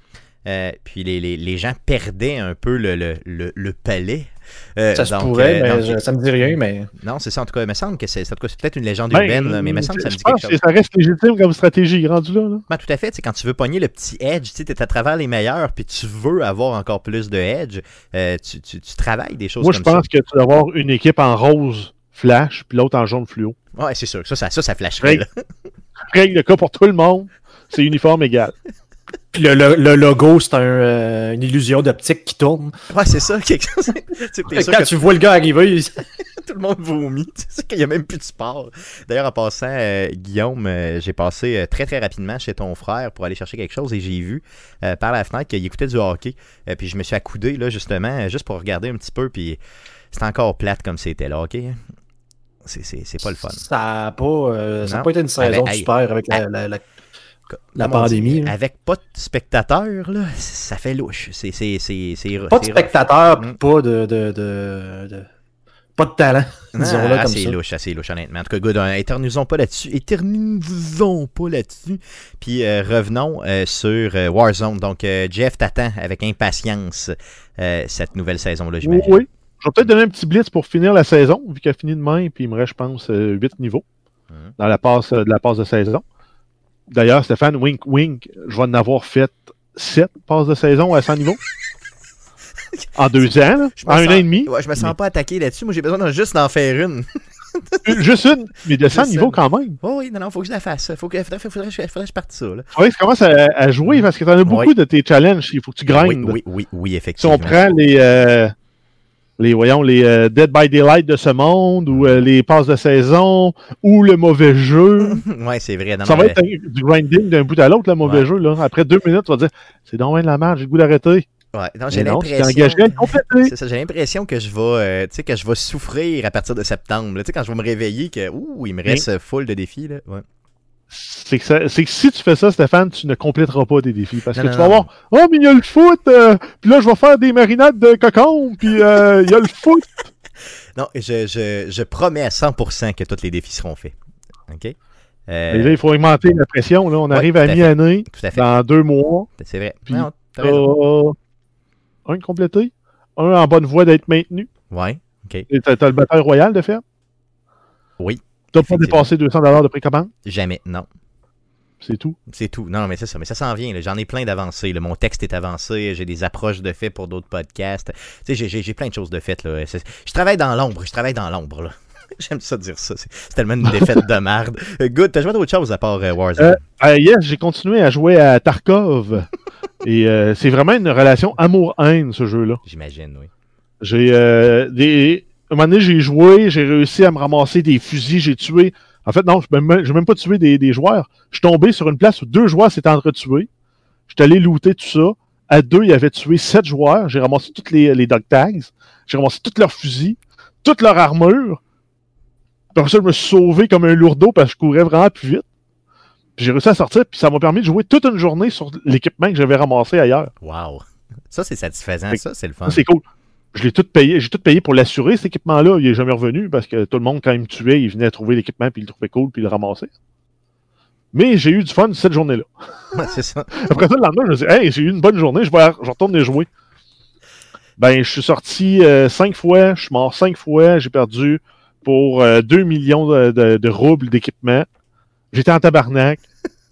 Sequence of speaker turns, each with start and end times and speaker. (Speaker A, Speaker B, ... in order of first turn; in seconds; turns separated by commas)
Speaker A: 0.4-10.6, Speaker B: 4.9-6.9, Speaker C: 9.1-12.6, Speaker A: 12.7-20.0, Speaker C: 19.6-23.6, Speaker A: 23.8-25.3, Speaker C: 26.1-28.5, Speaker B: 29.3-32.7, Speaker A: 32.9-34.9, Speaker B: 34.5-36.0, Speaker A: 36.2-49.6, Speaker A: 50.1-51.8, Speaker A: 52.6-53.6, Speaker B: 53.5-56.8, Speaker A: 54.8-56.4, Speaker A: 57.5-63.5, Speaker B: 57.8-58.5, Speaker B: 62.5-65.3, Speaker B: 66.0-67.5, Speaker A: 66.7-79.2, Speaker C: 78.8-83.8, Speaker C: 84.6-86.0, Speaker C: 86.9-91.4, Speaker C: 93.0-94.9, Speaker A: 93.8-98.0, Speaker C: 97.8-99.8, Speaker A: 98.9-102.7, Speaker C: 102.7-106.4, Speaker A: 103.9-104.7, Speaker A: 105.9-107.6, Speaker C: 107.2-108.5, Speaker C: 109.4-115.2, Speaker A: 115.0-116.4, Speaker C: 116.0-121.2, Speaker A: 118.0-118.3, Speaker A: 121.5-130.2, Speaker C: 121.9-123.5, Speaker C: 130.9-140.0, Speaker A: 134.3-134.9, Speaker A: 140.8-143.9, Speaker A: 144.5-144.7, Speaker A: 145.3-145.8, Speaker C: 145.5-149.3, Speaker A: 147.1-148.5, Speaker A: 149.4-150.6, Speaker C: 149.9-151.1, Speaker C: 152.1-154.5, Speaker A: 154.7-155.5, Speaker C: 155.5-156.8, Speaker A: 158.0-159.1, Speaker C: 158.5-160.1, Speaker A: 160.2-160.9, Speaker C: 161.8-162.2, Speaker A: 162.3-176.6, Speaker C: 176.4-179.3, Speaker C: 179.8-182.6, Speaker A: 182.6-183.3, Speaker C: 183.8-193.5, Speaker C: 194.1-201.6, Speaker C: 202.8-205.4, Speaker C: 206.4-210.3, Speaker A: 210.4-212.8, Speaker C: 212.1-213.0, Speaker C: 213.5-219.9, Speaker C: 221.1-222.5, Speaker A: 222.9-223.5, Speaker C: 223.5-226.5, Speaker C: 227.8-234.7, Speaker C: 235.3-236.2